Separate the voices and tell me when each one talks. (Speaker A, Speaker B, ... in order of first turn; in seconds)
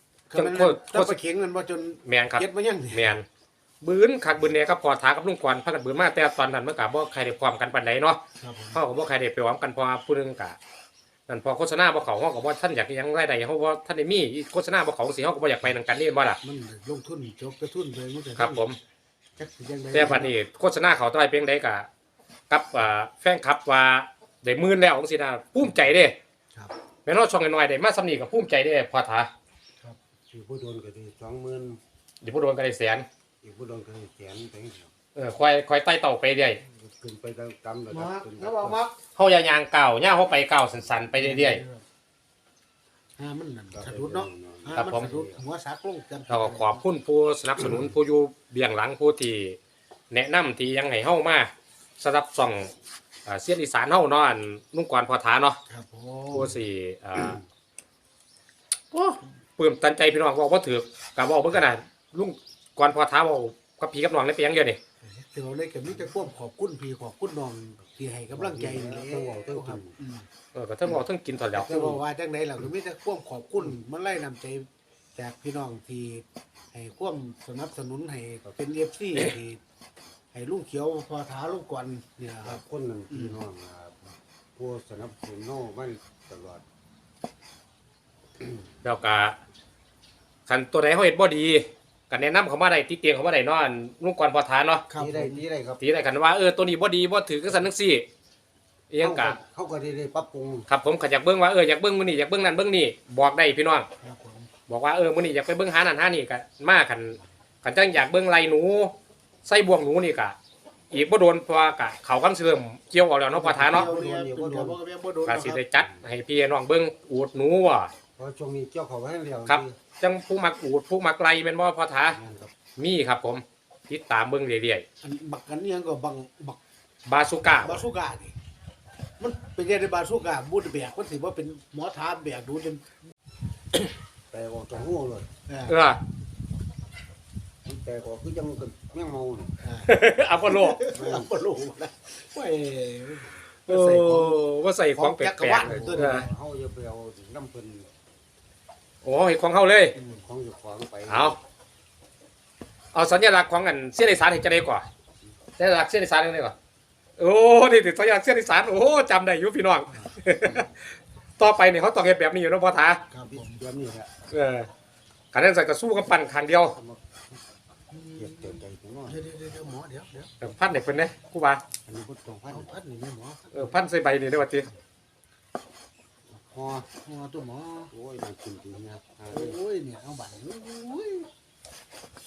Speaker A: 0.3-3.1, 8.4-8.8, 16.4-18.7, 19.4-20.3, 37.9-39.0, 41.1-41.8, 43.2-46.8, 55.7-56.6, 65.0-70.3, 71.5-79.6, 80.3-83.4, 94.9-95.4, 104.0-104.5, 113.3-115.8, 125.0-126.6, 127.5-128.3, 129.2-132.9, 135.5-135.8, 139.6-144.4, 144.9-146.2, 150.0-150.2, 163.1-163.6, 167.9-170.3, 172.5-173.8, 176.9-177.9, 179.3-181.3
Speaker B: 0.3-1.2, 2.0-3.2, 3.8-8.2, 8.7-10.6, 11.3-16.4, 18.4-18.8, 19.9-21.9, 22.5-26.2, 27.0-29.3, 32.2-33.0, 35.1-36.6, 39.1-41.6, 44.8-45.1, 46.3-49.6, 50.1-52.7, 53.2-55.6, 56.3-57.4, 58.9-64.8, 70.5-71.9, 88.8-89.4, 90.5-94.8, 95.8-98.0, 98.9-99.4, 100.7-103.9, 104.7-108.9, 109.4-110.4, 110.9-113.9, 115.2-117.9, 119.5-122.2, 122.8-124.8, 127.0-127.8, 135.7-136.0, 139.8-140.9, 143.7-146.3, 149.0-150.0, 151.1-151.4, 152.9-154.8, 155.6-156.6, 157.2-163.0, 164.3-164.7, 165.3-166.8, 170.4-171.6, 173.5-174.7
Speaker C: 30.3-31.8, 33.4-34.9, 36.7-38.8, 43.7-45.4, 68.3-69.9, 71.7-72.0, 82.4-86.6, 94.9-95.8, 99.0-100.7, 113.4-114.8, 118.2-119.8, 122.1-122.5, 134.3-135.3, 137.6-139.6, 141.0-141.2, 145.6-147.9, 150.1-151.4, 163.3-164.1, 166.7-167.2, 168.1-169.3, 171.8-172.7, 176.3-176.9, 177.9-179.6